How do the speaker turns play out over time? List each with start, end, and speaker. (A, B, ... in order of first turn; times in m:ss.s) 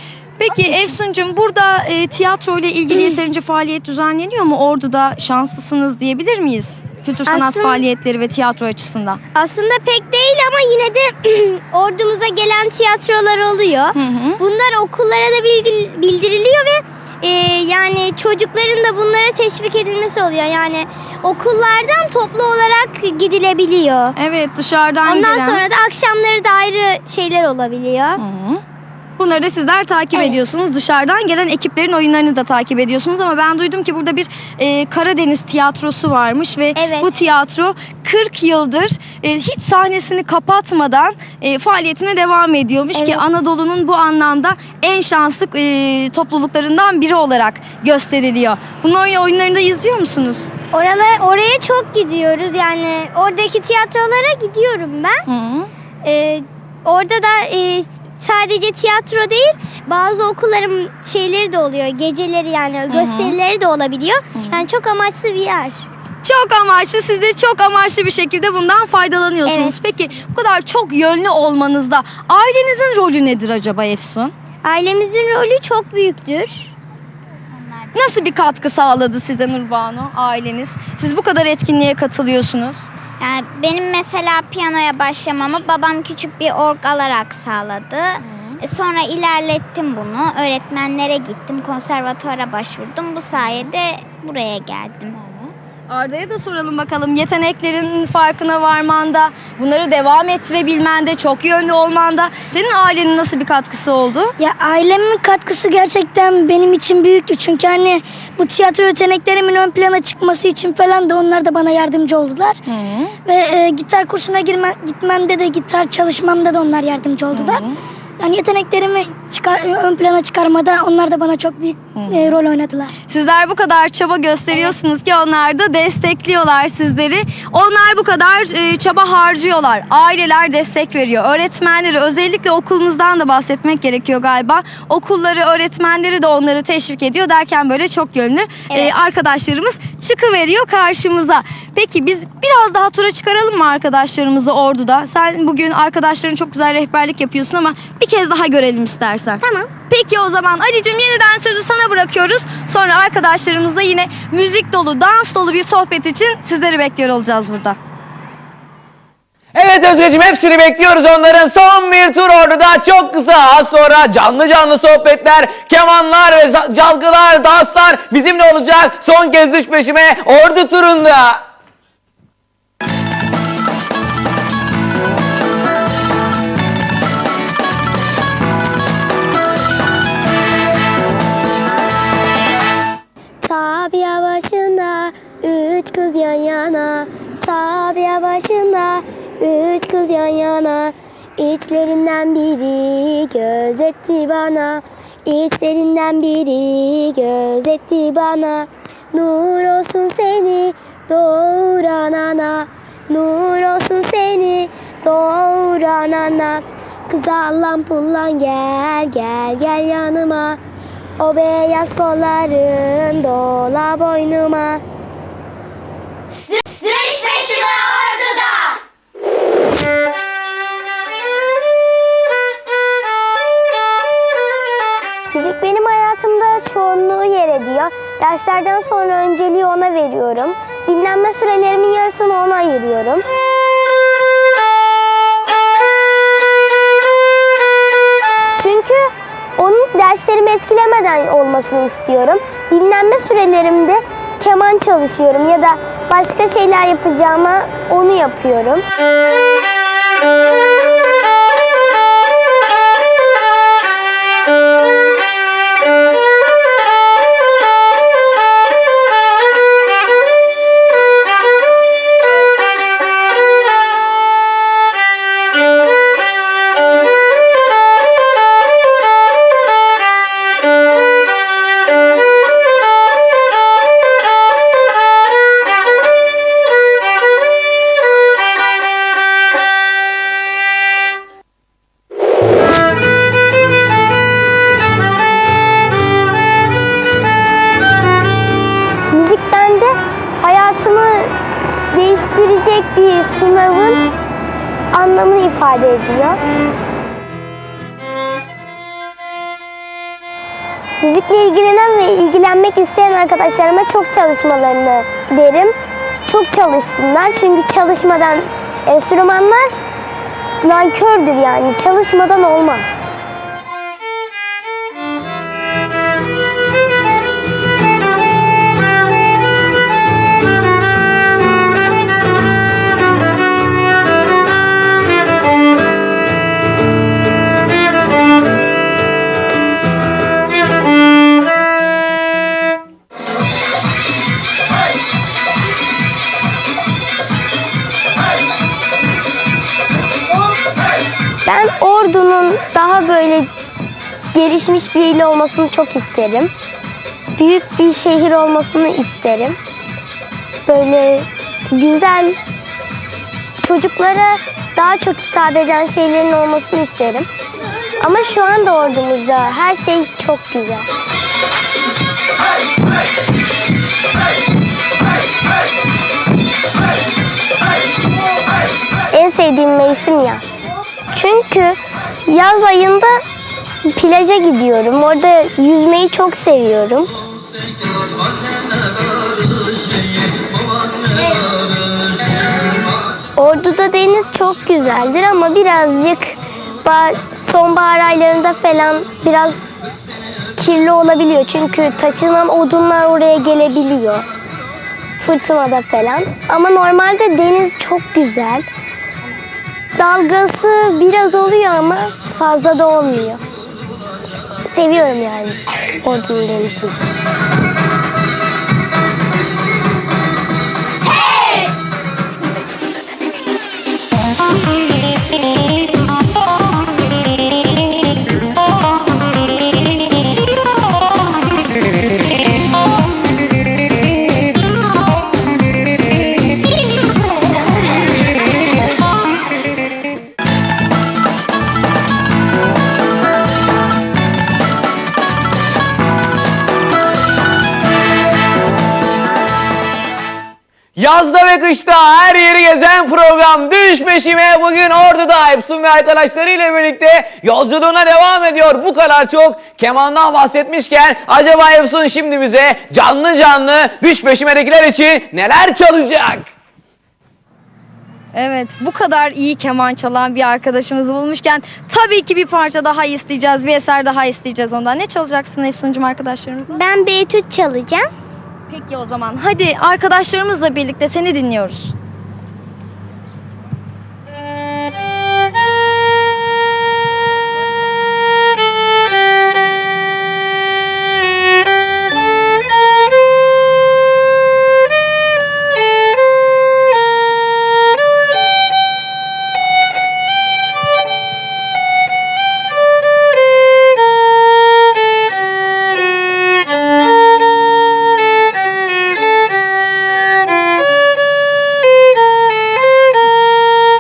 0:00.4-0:09.2 A
0:00.5-0:00.9 B
0:07.2-0:07.8 B
0:09.3-0:24.1 B
0:13.9-0:14.4 A
0:24.2-0:25.6 A
0:25.0-0:28.2 B
0:28.2-0:28.6 A
0:29.2-0:50.5 A
0:30.1-0:30.4 B
0:36.8-0:37.1 B
0:42.9-0:43.2 B
0:50.7-0:55.2 B
0:55.3-0:55.7 A
0:56.0-1:05.9 B
1:02.9-1:03.4 A
1:04.3-1:04.6 A
1:06.2-1:14.3 A
1:09.4-1:09.7 B
1:14.6-1:16.7 B
1:17.5-1:18.1 C
1:17.9-1:22.8 A
1:23.2-1:35.2 C
1:28.2-1:28.6 A
1:33.4-1:33.7 A
1:35.2-1:44.3 A
1:44.4-1:52.6 D
1:52.7-1:53.2 A
1:53.2-1:57.6 D
1:57.3-1:57.8 A
1:58.2-2:03.0 D
2:01.9-2:02.4 A
2:03.1-2:37.8 A
2:29.4-2:29.7 B
2:39.5-2:51.4 E
3:03.4-3:30.6 B
3:31.2-3:34.8 B
3:36.8-3:38.7 B
3:45.3-3:53.2 B
3:58.6-4:08.8 B
4:49.1-4:51.3 B
4:51.9-4:54.1 B
4:54.9-4:56.4 B
5:01.0-5:05.7 B
5:06.3-5:09.8 B
5:10.6-5:13.0 B
5:41.4-5:43.5 B
5:44.3-5:46.5 B
5:47.4-5:49.6 B
5:50.6-5:52.4 B
5:53.6-5:57.3 B
5:58.0-6:00.9 B
6:09.1-6:10.4 B
6:11.1-6:13.2 B
6:13.9-6:17.1 B
6:23.4-6:29.6 B
6:30.6-6:34.3 B
6:35.2-6:38.6 B
6:40.0-6:43.4 B
6:44.7-6:47.0 B
7:21.0-7:36.5 E
7:38.3-7:46.8 A
7:46.7-7:48.1 B
7:48.7-7:51.9 A